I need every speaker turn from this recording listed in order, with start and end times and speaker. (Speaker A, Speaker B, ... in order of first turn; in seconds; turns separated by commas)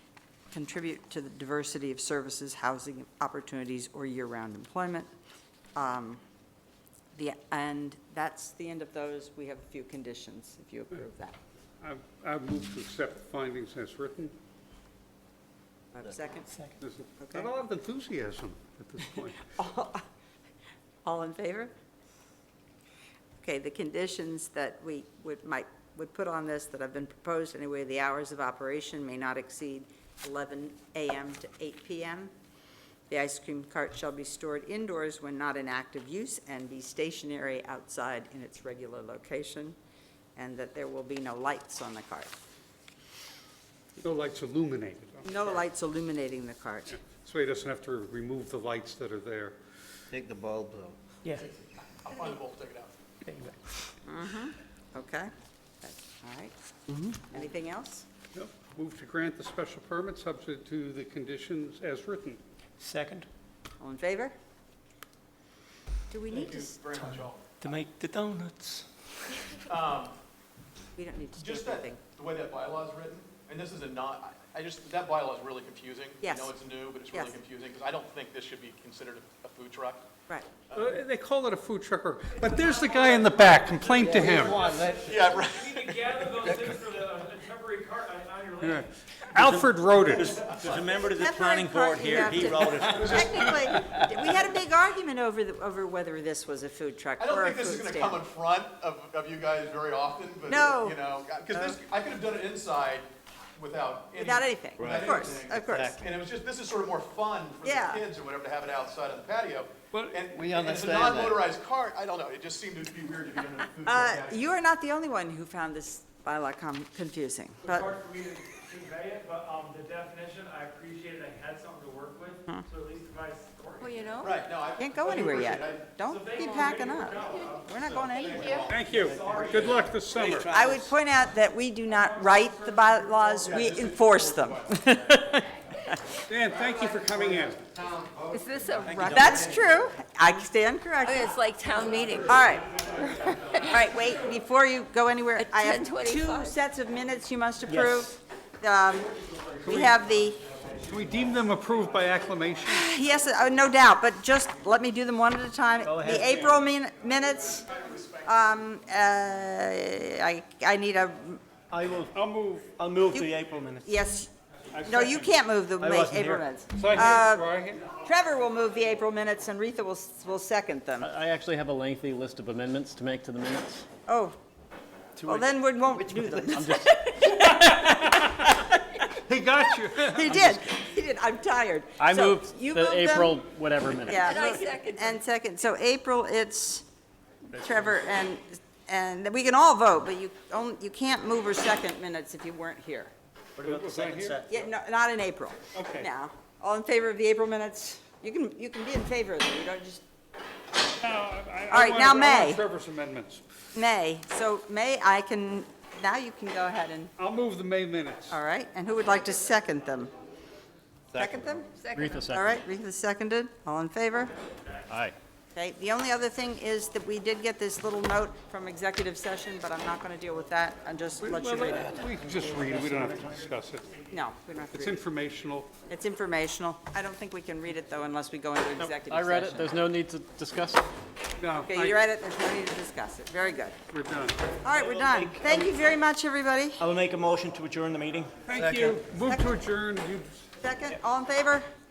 Speaker A: 0.5-5.1, Speaker A: 5.8-6.2, Speaker A: 7.2-11.4, Speaker B: 11.8-14.3, Speaker A: 15.9-16.5, Speaker B: 16.8-19.4, Speaker A: 17.2-17.5, Speaker A: 19.4-20.0, Speaker A: 21.0-21.7, Speaker A: 23.4-32.3, Speaker A: 33.1-39.8, Speaker A: 40.4-42.3, Speaker B: 44.0-45.6, Speaker A: 45.2-47.0, Speaker B: 46.9-49.6, Speaker C: 50.1-51.0, Speaker D: 51.7-52.9, Speaker E: 53.2-53.6, Speaker A: 54.0-55.3, Speaker A: 55.8-56.5, Speaker A: 57.1-58.0, Speaker B: 58.3-62.4, Speaker E: 62.8-63.3, Speaker A: 63.8-64.3, Speaker A: 66.1-66.8, Speaker D: 66.3-67.6, Speaker E: 67.0-68.9, Speaker D: 69.6-70.2, Speaker A: 71.0-72.0, Speaker D: 71.3-80.0, Speaker A: 76.2-76.5, Speaker B: 80.7-84.6, Speaker F: 82.6-88.9, Speaker C: 84.0-85.3, Speaker D: 84.9-86.3, Speaker C: 86.4-86.7, Speaker B: 88.6-90.5, Speaker C: 89.4-93.4, Speaker D: 90.5-90.8, Speaker A: 90.9-98.2, Speaker D: 92.8-93.3, Speaker E: 93.4-94.0, Speaker D: 97.2-114.5, Speaker A: 100.5-101.0, Speaker A: 104.2-106.0, Speaker C: 104.8-105.1, Speaker C: 105.7-106.0, Speaker A: 107.6-108.0, Speaker C: 110.3-111.5, Speaker A: 113.8-117.9, Speaker F: 117.7-124.1, Speaker G: 123.8-124.3, Speaker D: 124.2-125.8, Speaker A: 124.8-128.7, Speaker F: 126.1-130.4, Speaker D: 127.8-129.8, Speaker G: 128.3-128.6, Speaker B: 128.7-130.5, Speaker E: 129.6-130.9, Speaker A: 130.4-136.0, Speaker D: 133.4-134.9, Speaker B: 136.3-137.7, Speaker C: 137.8-138.3, Speaker G: 138.3-139.3, Speaker C: 138.8-139.7, Speaker A: 139.0-141.3, Speaker G: 141.1-143.7, Speaker A: 142.2-142.7, Speaker F: 142.4-143.5, Speaker A: 143.6-150.4, Speaker G: 145.4-146.5, Speaker F: 147.7-148.0, Speaker B: 149.6-150.0, Speaker B: 150.8-152.9, Speaker A: 152.7-161.4, Speaker F: 155.8-156.6, Speaker E: 161.7-162.1, Speaker B: 162.1-162.8, Speaker E: 162.7-163.8, Speaker F: 163.2-163.6, Speaker A: 163.8-164.3, Speaker B: 164.8-165.3, Speaker A: 164.8-171.1, Speaker E: 165.8-166.3, Speaker F: 165.9-166.2, Speaker B: 166.7-167.8, Speaker H: 171.0-173.8, Speaker A: 174.1-174.3, Speaker F: 175.2-175.4, Speaker A: 175.2-179.1, Speaker H: 176.5-177.3, Speaker B: 177.3-178.5, Speaker B: 179.2-180.6, Speaker A: 180.0-183.4, Speaker H: 182.0-184.5, Speaker A: 184.0-186.8, Speaker G: 184.5-185.0, Speaker A: 187.5-193.1, Speaker E: 193.6-194.6, Speaker B: 193.6-194.4, Speaker A: 194.5-200.0, Speaker F: 195.8-196.1, Speaker B: 201.0-203.4, Speaker A: 201.7-202.6, Speaker A: 203.7-207.1, Speaker B: 207.2-208.4, Speaker A: 208.3-210.1, Speaker A: 211.1-211.7, Speaker H: 211.9-212.6, Speaker A: 212.3-214.3, Speaker H: 214.9-215.2, Speaker A: 215.5-222.1, Speaker B: 221.2-224.0, Speaker A: 224.1-225.0, Speaker B: 224.7-225.7, Speaker A: 225.9-229.8, Speaker H: 228.8-230.8, Speaker B: 231.4-232.0, Speaker A: 231.6-233.8, Speaker B: 233.9-234.4, Speaker A: 234.6-236.8, Speaker E: 234.8-235.7, Speaker E: 236.8-238.4, Speaker F: 236.9-237.4, Speaker B: 238.5-240.5, Speaker F: 238.5-238.9, Speaker A: 239.2-239.5, Speaker A: 240.6-241.7